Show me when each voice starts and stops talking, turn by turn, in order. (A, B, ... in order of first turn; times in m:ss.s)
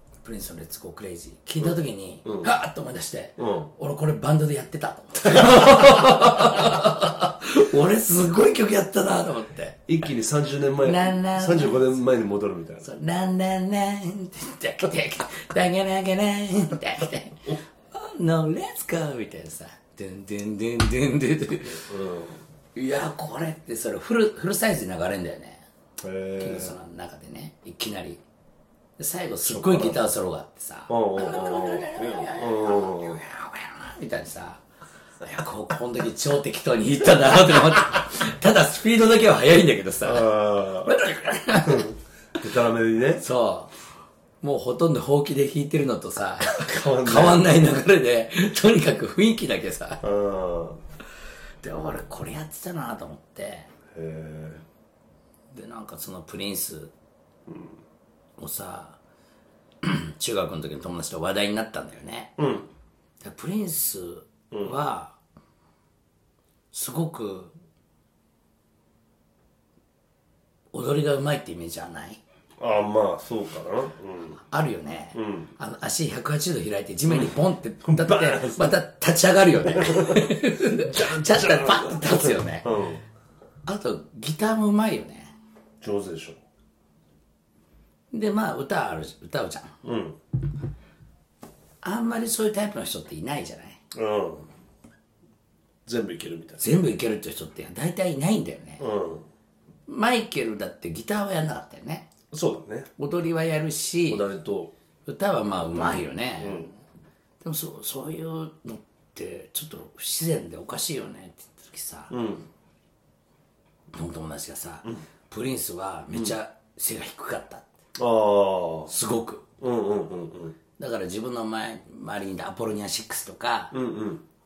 0:00.2-0:09.9 A
0:01.6-0:02.5 B
0:03.4-0:03.7 B
0:05.3-0:06.9 B
0:09.9-0:12.9 B
0:10.8-0:12.0 A
0:12.8-0:21.9 A
0:21.6-0:22.4 B
0:22.8-0:25.7 A
0:26.0-0:26.8 B
0:26.4-0:28.2 A
0:29.0-0:34.6 A
0:29.4-0:30.0 B
0:30.9-0:33.2 B
0:35.2-0:41.9 A
0:40.0-0:41.0 B
0:41.7-0:43.2 B
0:43.2-0:43.7 A
0:44.4-0:50.0 A
0:46.6-0:47.5 B
0:50.0-0:50.8 B
0:51.6-0:53.7 A
0:53.9-0:54.6 B
0:55.5-0:56.9 A
0:57.5-0:57.8 B
0:58.4-0:59.0 A
0:59.8-1:02.4 A
1:02.4-1:02.7 B
1:03.2-1:05.2 A
1:04.5-1:04.8 B
1:06.7-1:07.5 A
1:10.7-1:12.2 A
1:12.6-1:14.4 B
1:14.4-1:22.8 A
1:15.2-1:15.5 B
1:17.1-1:18.8 B
1:19.7-1:23.0 B
1:23.7-1:25.3 A
1:25.8-1:26.4 B
1:28.1-1:29.8 A
1:29.8-1:30.2 B
1:31.8-1:33.8 A
1:33.9-1:34.5 B
1:35.9-1:36.6 B
1:36.6-1:38.9 A
1:38.8-1:39.3 B
1:39.9-1:42.1 A
1:42.3-1:42.9 B
1:43.0-1:44.2 A
1:44.1-1:44.7 B
1:45.1-1:46.8 A
1:45.8-1:46.7 B
1:47.4-1:52.2 A
1:52.1-1:52.5 B
1:53.9-1:57.7 A
1:58.0-1:58.9 B
1:58.9-1:59.5 A
1:59.6-2:00.6 B
2:00.8-2:03.8 A
2:03.7-2:04.2 B